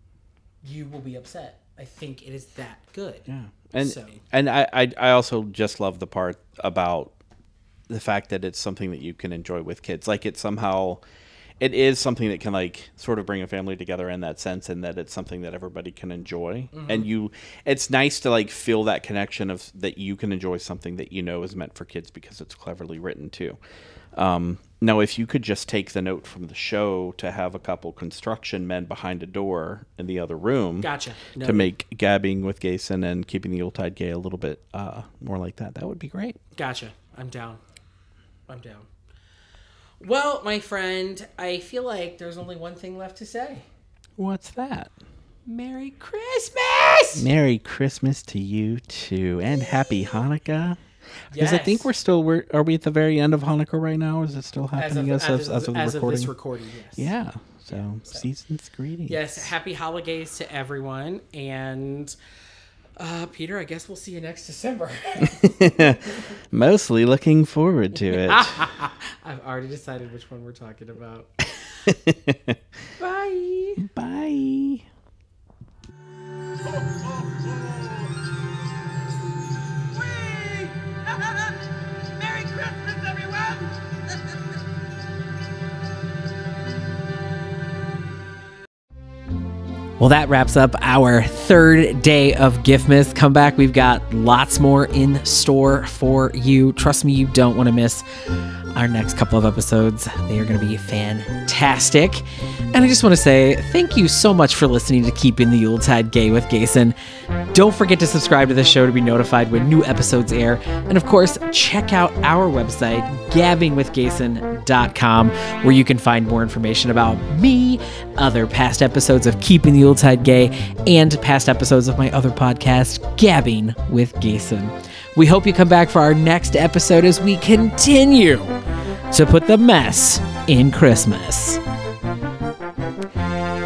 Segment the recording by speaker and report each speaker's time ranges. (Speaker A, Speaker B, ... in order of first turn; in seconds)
Speaker A: 0.6-3.2, 3.8-4.2, 16.7-17.1, 30.8-31.7, 36.5-37.6, 38.5-38.9, 40.0-43.7, 45.5-47.3, 51.3-51.9, 54.7-57.1, 57.7-58.3, 59.1-62.1, 63.0-66.3, 67.9-71.3, 73.0-73.8, 90.0-98.0, 98.7-107.0, 107.5-128.6, 129.1-131.6
Speaker B: 3.3-7.2, 7.9-11.0, 11.6-23.6, 24.1-36.4, 44.2-44.9, 47.1-50.8, 51.3-56.3, 57.0-59.5, 65.2-68.7, 71.8-72.5, 73.8-74.8
Speaker C: 76.6-78.1, 79.9-81.6, 82.2-84.2